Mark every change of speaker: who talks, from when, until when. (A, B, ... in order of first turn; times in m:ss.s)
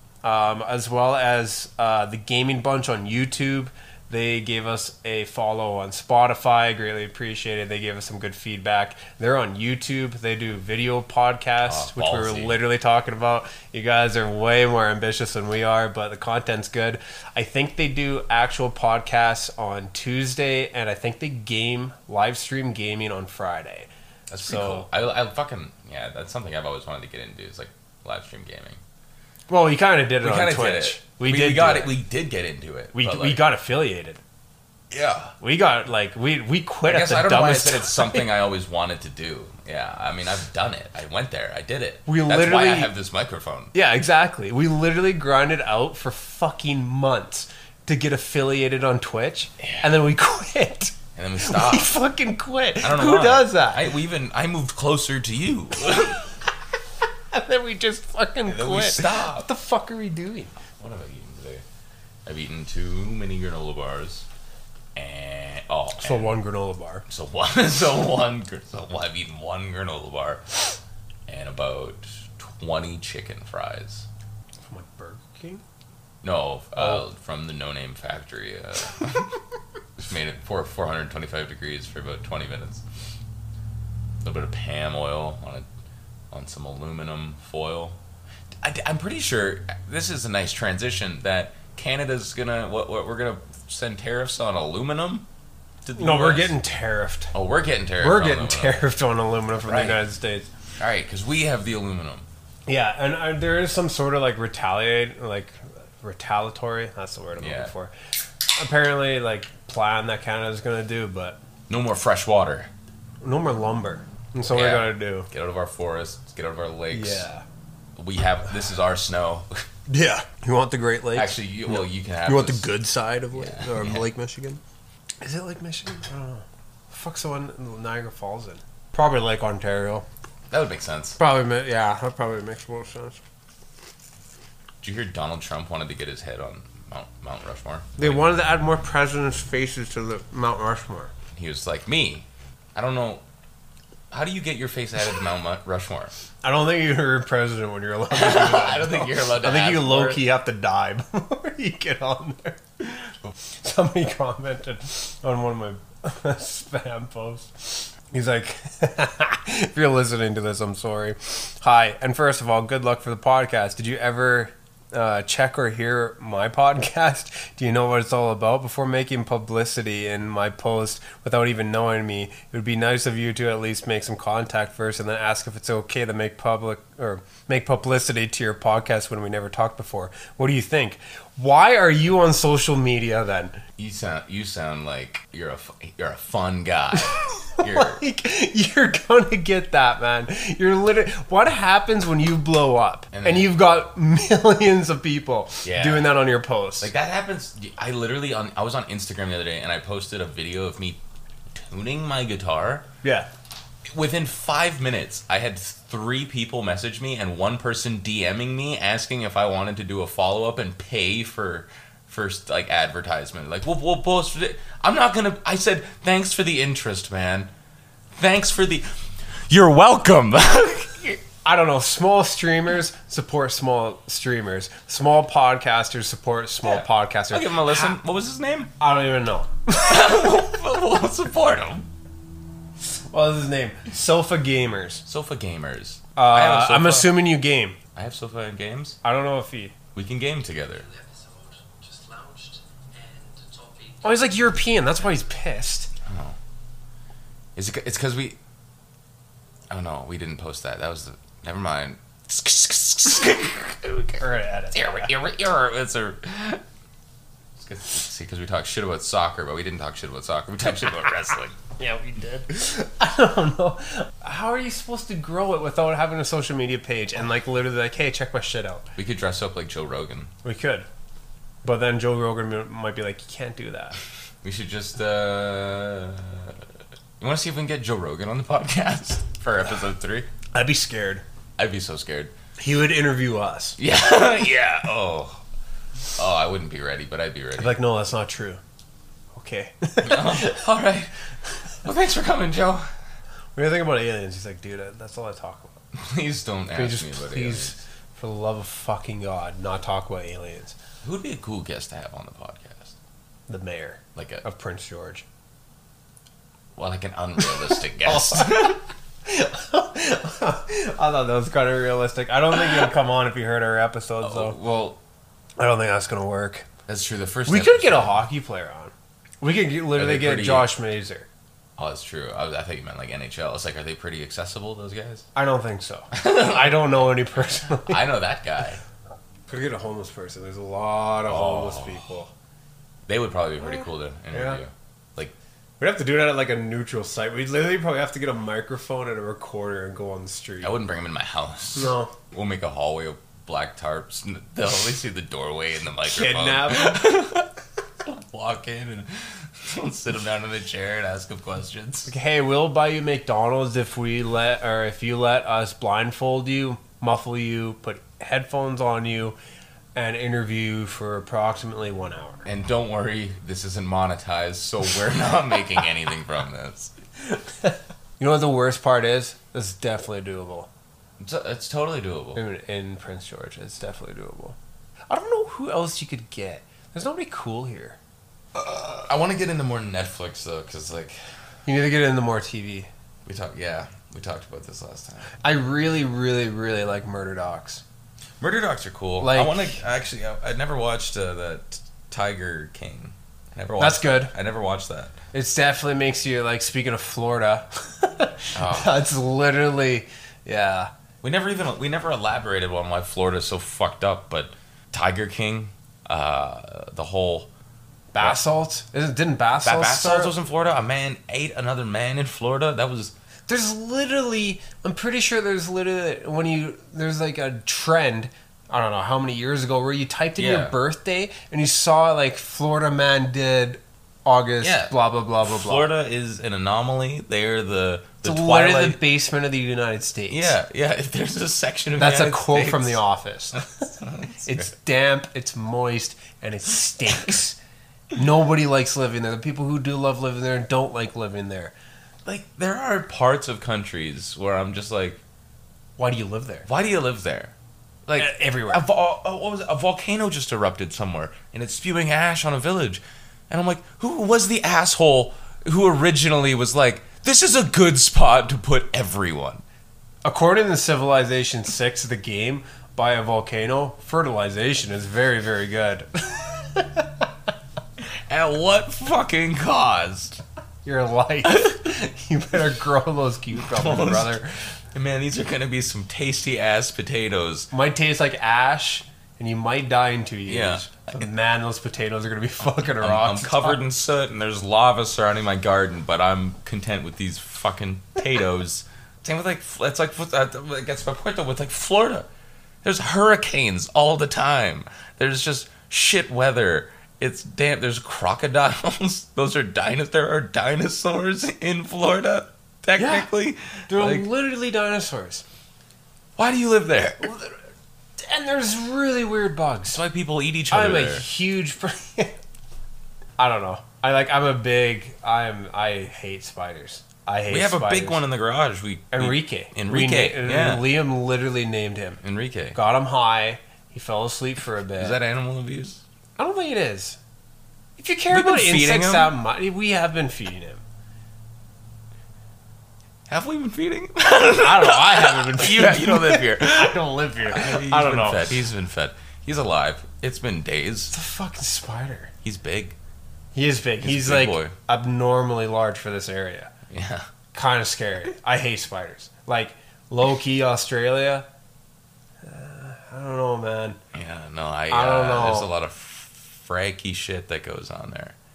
0:00.2-0:24.9 A
0:11.6-0:12.6 B
0:24.3-0:28.8 B
0:29.5-0:32.0 A
0:30.2-0:33.4 B
0:32.9-0:34.2 A
0:34.9-0:35.3 B
0:35.4-0:38.3 A
0:36.8-0:43.7 B
0:42.1-0:42.9 A
0:43.7-0:53.9 A
0:51.1-0:51.9 B
0:52.8-0:56.2 B
0:57.3-1:00.5 A
0:58.5-0:59.5 B
1:00.8-1:01.6 B
1:02.2-1:04.2 B
1:05.0-1:06.4 B
1:06.0-1:07.0 A
1:07.1-1:10.8 B
1:11.3-1:14.1 B
1:14.6-1:15.6 A
1:16.2-1:19.4 B
1:20.0-1:22.8 B
1:24.2-1:25.6 B
1:26.3-1:28.0 B
1:28.6-1:35.2 B
1:35.8-1:36.6 B
1:36.0-1:37.3 A
1:37.3-1:38.8 B
1:38.0-1:40.5 A
1:39.6-1:40.0 B
1:40.8-1:42.2 B
1:42.7-1:47.9 A
1:47.4-1:47.7 B
1:48.5-1:51.4 A
1:51.7-1:52.7 B
1:53.2-1:55.3 A
1:54.5-1:57.3 B
1:56.9-1:57.4 A
1:58.0-1:59.6 B
1:59.9-2:04.6 A
2:01.1-2:02.7 B
2:03.3-2:04.1 B
2:05.2-2:10.1 A
2:10.5-2:11.2 B
2:11.2-2:13.2 A
2:14.8-2:18.2 B
2:18.0-2:21.1 A
2:21.3-2:23.2 B
2:24.1-2:26.1 B
2:26.4-2:33.0 A
2:28.1-2:30.2 B
2:33.6-3:03.6 A
3:03.8-3:08.0 B
3:07.5-3:16.9 A
3:13.1-3:13.5 B
3:15.6-3:16.2 B
3:16.8-3:21.0 B
3:21.5-3:22.9 B
3:23.0-3:23.3 A
3:23.8-3:37.5 B
3:38.1-3:39.0 B
3:39.5-3:41.2 B
3:41.4-3:48.0 A
3:46.6-3:48.7 B
3:48.8-3:50.2 A
3:49.7-3:51.9 B
3:53.1-3:55.0 A
3:55.1-3:57.2 B
3:56.2-3:57.8 A
3:57.9-3:59.0 B
3:59.0-3:59.7 A
3:59.9-4:00.9 B
4:00.7-4:04.3 C
4:04.0-4:05.9 A
4:06.0-4:06.4 B
4:07.6-4:08.4 B
4:09.7-4:16.6 B
4:14.2-4:15.1 A
4:17.6-4:21.6 B
4:21.8-4:28.9 A
4:29.0-4:30.3 B
4:30.4-4:30.9 A
4:31.6-4:34.0 A
4:34.4-4:36.6 B
4:37.2-4:40.3 B
4:40.5-4:41.2 A
4:41.6-4:42.3 B
4:42.6-4:43.8 A
4:43.8-4:45.4 B
4:46.2-4:47.8 B
4:47.6-4:48.6 A
4:49.4-4:50.6 A
4:50.0-4:51.1 B
4:51.8-4:52.9 B
4:53.6-4:55.8 A
4:55.9-4:57.8 B
4:56.7-5:00.8 A
5:01.0-5:02.9 B
5:03.5-5:05.2 A
5:04.1-5:04.4 B
5:06.8-5:08.8 B
5:08.0-5:14.6 A
5:14.2-5:15.0 B
5:15.6-5:16.7 A
5:16.9-5:18.2 B
5:17.5-5:21.3 A
5:19.9-5:20.7 B
5:21.8-5:25.3 B
5:25.4-5:28.1 A
5:26.1-5:28.8 B
5:29.5-5:32.3 A
5:31.3-5:32.1 B
5:33.1-5:35.3 B
5:34.3-5:34.6 A
5:35.8-5:40.7 A
5:40.6-5:47.5 B
5:41.8-5:42.1 A
5:46.1-5:47.3 A
5:48.0-5:52.1 B
5:52.1-5:59.4 A
5:59.9-6:02.4 A
6:02.4-6:06.9 B
6:07.2-6:10.7 A
6:11.2-6:12.4 B
6:12.4-6:14.6 A
6:15.1-6:18.0 A
6:18.5-6:21.2 B
6:21.6-6:22.9 A
6:23.3-6:25.3 B
6:25.4-6:27.8 A
6:28.4-6:35.2 B
6:29.2-6:29.8 A
6:33.8-6:34.3 A
6:35.3-6:40.9 A
6:38.5-6:38.9 B
6:41.2-6:47.5 B
6:48.1-6:48.4 B
6:48.2-6:50.4 A
6:49.6-6:53.1 B
6:53.5-7:05.9 A
7:00.4-7:00.8 B
7:04.6-7:09.0 B
7:08.2-7:10.6 A
7:10.3-7:13.0 B
7:12.0-7:17.6 A
7:13.6-7:14.7 B
7:18.1-7:21.7 A
7:22.2-7:25.2 B
7:26.0-7:26.7 A
7:26.6-7:27.5 B
7:28.1-7:39.6 B
7:28.2-7:28.8 A
7:40.2-7:47.2 A
7:48.3-7:50.4 B
7:50.8-7:54.6 A
7:51.5-7:51.8 B
7:53.6-7:54.4 B
7:54.9-7:57.7 B
7:57.7-8:03.8 A
8:00.4-8:01.3 B
8:03.0-8:12.3 B
8:12.8-8:24.3 B
8:23.0-8:23.3 A
8:23.9-8:25.4 A
8:26.4-8:27.3 B
8:27.2-8:27.5 A
8:28.2-8:30.0 A
8:29.9-8:31.2 B
8:30.7-8:32.4 A
8:33.4-8:38.2 A
8:37.5-8:40.9 B
8:39.1-8:42.2 A
8:42.2-8:42.8 B
8:42.7-8:45.2 A
8:45.0-8:46.0 B
8:46.4-8:47.2 A
8:48.0-8:50.8 A
8:48.3-8:49.3 B
8:53.3-9:01.1 B
8:54.5-8:58.6 A
9:01.1-9:02.3 A
9:02.4-9:03.0 B
9:03.6-9:06.7 A
9:04.0-9:04.8 B
9:06.9-9:07.3 B
9:07.5-9:11.4 A
9:12.4-9:14.0 A
9:14.1-9:18.4 B
9:14.9-9:15.7 A